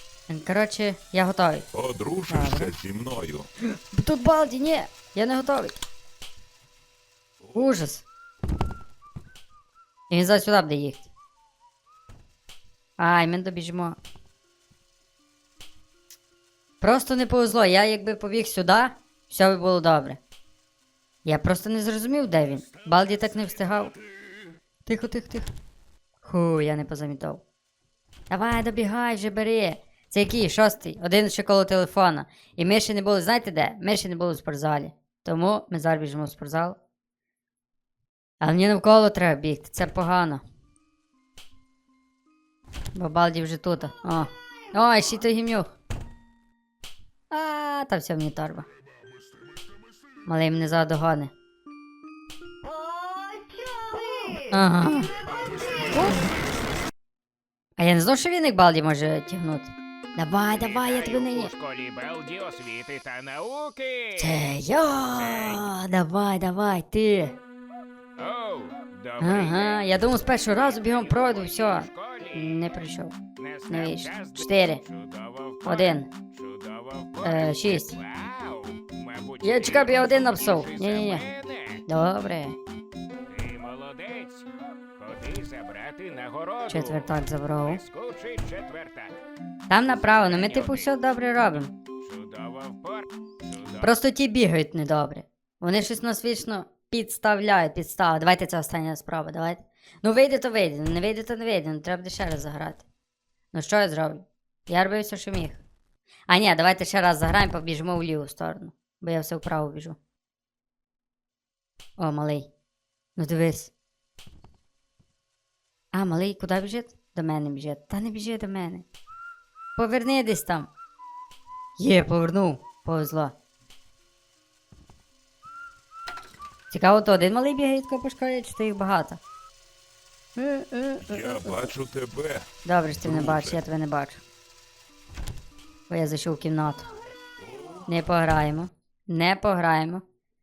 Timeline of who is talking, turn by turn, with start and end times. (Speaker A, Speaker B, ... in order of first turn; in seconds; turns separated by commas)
Speaker A: 0.3-1.7, Speaker B: 1.7-3.5, Speaker A: 2.3-2.7, Speaker A: 3.9-5.8, Speaker B: 7.4-7.8, Speaker A: 7.5-8.0, Speaker A: 10.1-11.1, Speaker A: 13.0-14.0, Speaker A: 16.8-20.2, Speaker A: 21.2-24.0, Speaker A: 24.9-25.5, Speaker A: 26.2-27.4, Speaker A: 28.3-36.8, Speaker A: 38.4-40.4, Speaker A: 43.0-45.7, Speaker A: 47.3-48.7, Speaker A: 50.3-51.3, Speaker A: 54.5-55.1, Speaker A: 55.9-56.2, Speaker A: 57.8-61.5, Speaker C: 60.5-64.4, Speaker A: 64.2-67.4, Speaker C: 65.1-65.7, Speaker C: 68.2-72.6, Speaker A: 69.2-73.2, Speaker C: 73.4-81.8, Speaker A: 73.7-74.8, Speaker A: 75.7-76.1, Speaker A: 77.2-78.0, Speaker A: 79.4-81.2, Speaker A: 81.9-82.6, Speaker C: 83.3-89.2, Speaker A: 86.7-87.8, Speaker A: 89.7-91.7, Speaker C: 89.9-90.9, Speaker C: 92.0-93.9, Speaker A: 93.8-102.8, Speaker A: 103.5-105.6, Speaker A: 106.3-110.0, Speaker A: 112.0-112.5, Speaker A: 113.2-113.7, Speaker A: 115.9-118.8, Speaker A: 119.8-120.7, Speaker A: 121.8-123.3, Speaker A: 126.7-129.2, Speaker A: 130.4-131.7, Speaker B: 131.0-132.5, Speaker A: 132.7-134.2, Speaker B: 133.0-133.6, Speaker A: 135.9-136.9, Speaker B: 137.4-137.9, Speaker A: 137.9-140.0